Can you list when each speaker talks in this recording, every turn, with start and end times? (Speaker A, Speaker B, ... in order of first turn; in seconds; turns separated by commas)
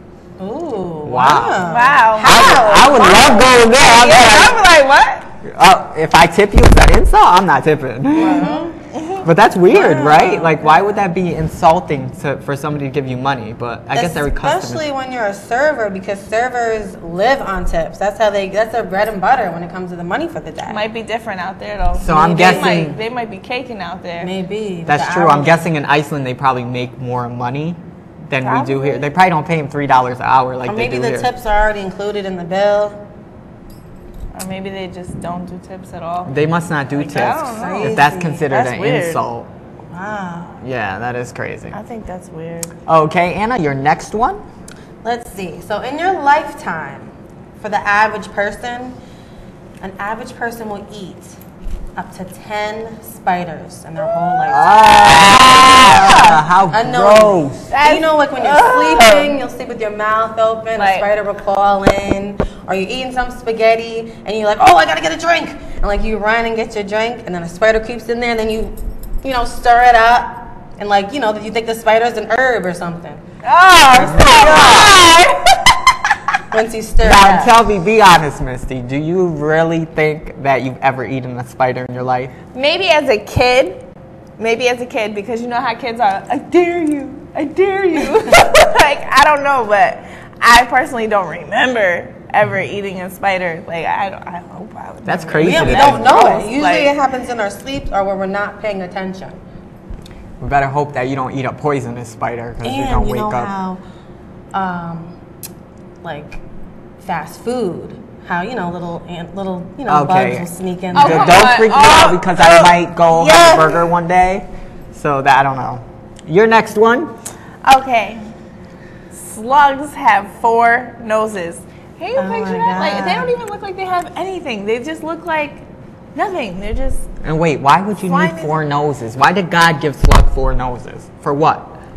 Speaker A: 0.4-3.0, Speaker B: 1.1-1.6, Speaker C: 1.7-5.3, Speaker B: 2.2-4.6, Speaker B: 5.4-8.5, Speaker A: 8.2-8.8, Speaker C: 8.5-9.2, Speaker B: 9.2-14.8, Speaker A: 9.7-10.7, Speaker A: 13.9-20.8, Speaker C: 20.7-24.3, Speaker B: 22.0-23.0, Speaker A: 22.1-22.9, Speaker A: 24.2-25.6, Speaker B: 24.9-31.3, Speaker C: 28.4-29.1, Speaker A: 30.6-33.0, Speaker C: 34.3-36.3, Speaker B: 36.2-39.5, Speaker C: 36.9-39.2, Speaker A: 37.3-38.5, Speaker A: 39.9-40.6, Speaker B: 40.6-41.8, Speaker C: 41.7-42.8, Speaker B: 42.9-44.4, Speaker A: 45.0-49.0, Speaker A: 49.8-51.4, Speaker A: 52.0-73.2, Speaker B: 54.5-57.7, Speaker C: 55.4-56.4, Speaker C: 57.7-59.4, Speaker C: 60.8-61.1, Speaker C: 73.4-75.7, Speaker A: 73.8-74.8, Speaker B: 74.0-75.0, Speaker A: 76.5-77.6, Speaker B: 77.0-82.3, Speaker C: 82.5-83.8, Speaker C: 84.4-97.0, Speaker B: 95.0-96.1, Speaker A: 95.4-99.4, Speaker B: 100.4-103.5, Speaker A: 102.6-103.8, Speaker A: 104.5-105.2, Speaker A: 106.0-106.4, Speaker A: 107.0-111.6, Speaker B: 109.9-117.2, Speaker C: 110.9-112.3, Speaker A: 112.4-113.9, Speaker C: 117.6-118.3, Speaker C: 119.1-125.6, Speaker A: 122.2-123.4, Speaker C: 126.2-127.1, Speaker B: 127.2-131.8, Speaker C: 128.0-128.6